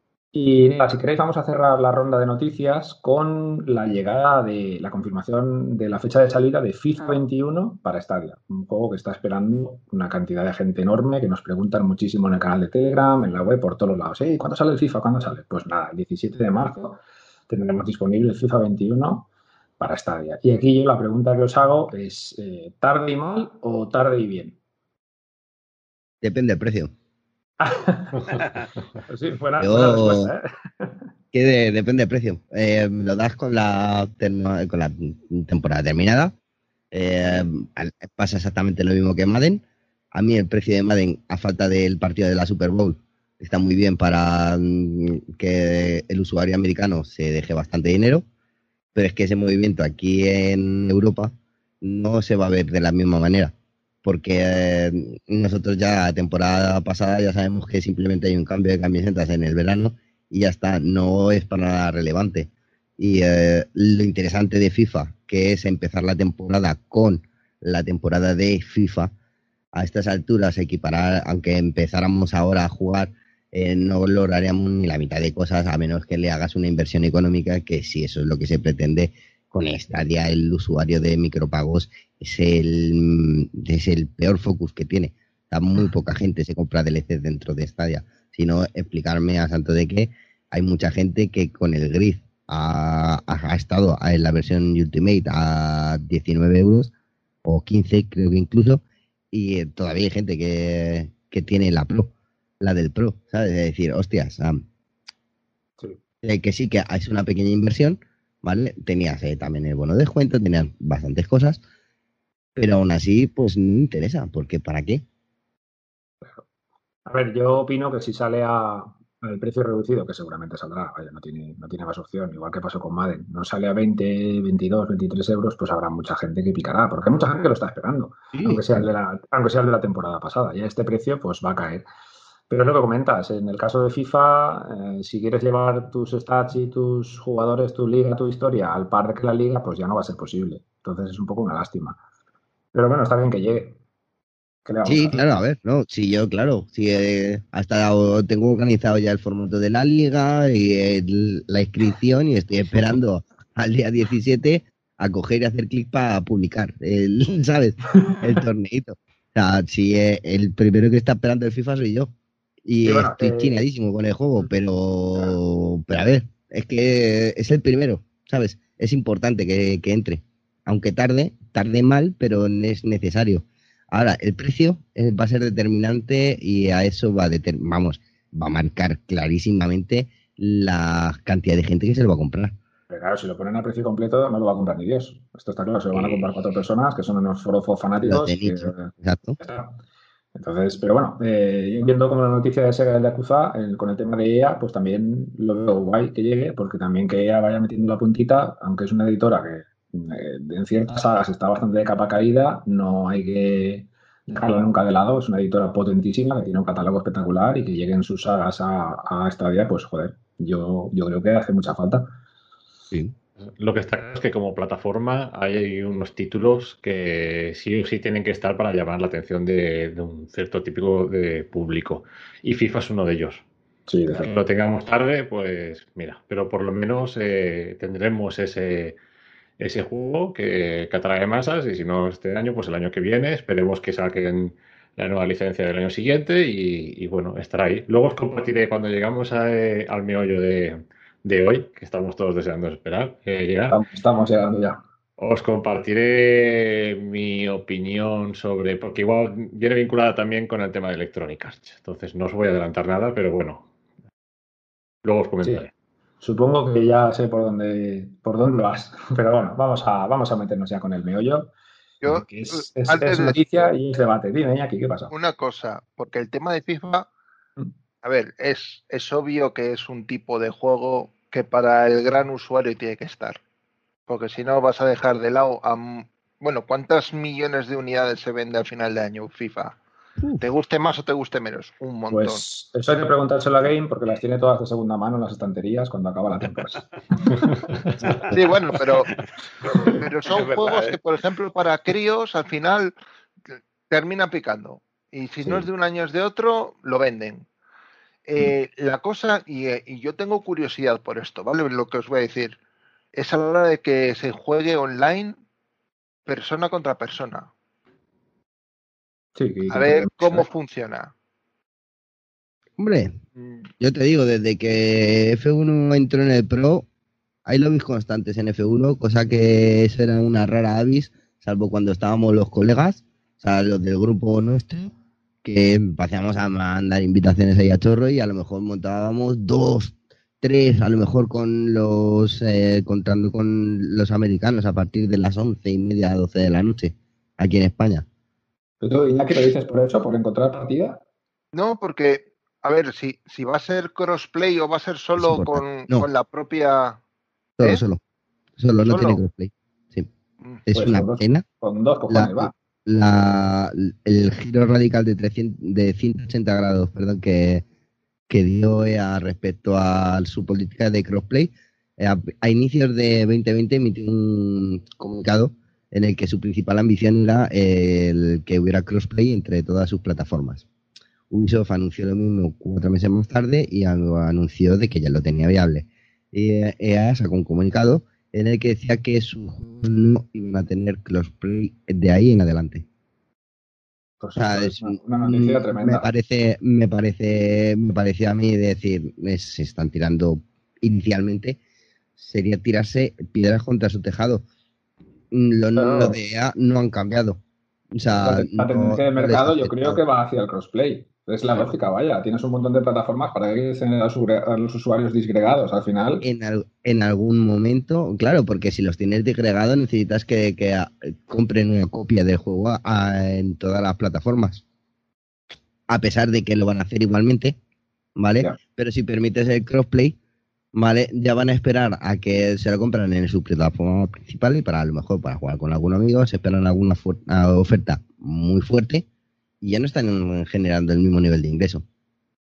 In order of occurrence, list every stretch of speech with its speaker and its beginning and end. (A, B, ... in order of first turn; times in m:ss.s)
0:00.3-0:19.3 A
0:19.8-0:24.6 A
0:26.2-0:26.9 B
0:27.6-0:28.5 A
0:29.0-0:30.9 A
0:29.6-0:30.3 B
0:31.3-0:36.3 B
0:36.9-0:39.6 B
0:40.1-0:48.2 B
0:49.0-1:09.1 B
1:09.8-1:36.9 B
1:37.4-1:44.6 B
1:46.2-1:51.6 B
1:52.6-1:55.0 B
1:57.1-2:11.8 A
2:08.3-2:08.8 B
2:12.5-2:22.0 A
2:22.7-2:23.8 A
2:24.6-2:25.2 A
2:24.8-2:42.1 B
2:42.6-3:02.6 B
2:42.8-2:43.6 A
3:02.9-3:09.8 A
3:05.9-3:06.3 B
3:08.1-3:09.4 B
3:10.4-3:32.1 A
3:33.6-3:43.4 C
3:43.9-3:44.3 A
3:44.1-3:49.0 C
3:49.6-4:03.8 C
4:03.7-4:04.8 A
4:05.2-4:13.6 C
4:15.0-4:15.7 C
4:16.2-4:21.5 A
4:22.0-4:22.3 D
4:22.1-4:25.1 A
4:22.9-4:23.6 D
4:25.1-4:27.1 D
4:28.0-4:33.4 D
4:34.1-4:39.8 D
4:40.4-4:42.4 D
4:42.1-4:47.9 A
4:48.3-4:49.1 D
4:49.6-4:51.0 A
4:49.8-4:52.9 D
4:53.9-4:57.5 D
4:58.3-5:02.6 D
5:03.1-5:05.4 D
5:06.3-5:07.5 D
5:09.4-5:10.5 A
5:09.7-5:11.1 D
5:12.8-5:13.2 B
5:13.4-5:13.6 D
5:13.8-5:16.9 B
5:17.5-5:24.9 B
5:25.4-5:38.1 B
5:38.8-5:41.0 A
5:41.5-5:47.0 D
5:45.2-5:46.1 B
5:47.6-5:48.0 B
5:48.6-5:50.1 B
5:48.9-5:49.2 D
5:50.6-5:51.4 B
5:50.7-5:52.5 A
5:52.1-5:57.6 B
5:58.3-6:10.6 B
6:11.3-6:22.8 B
6:24.2-6:26.1 A
6:24.4-6:31.6 B
6:32.2-6:34.4 B
6:35.3-6:37.4 B
6:35.8-6:36.2 A
6:37.9-6:40.0 B
6:38.1-6:46.2 A
6:46.2-6:54.6 B
6:55.9-6:57.6 B
6:58.2-7:00.2 B
7:00.7-7:09.0 B
7:09.6-7:11.8 B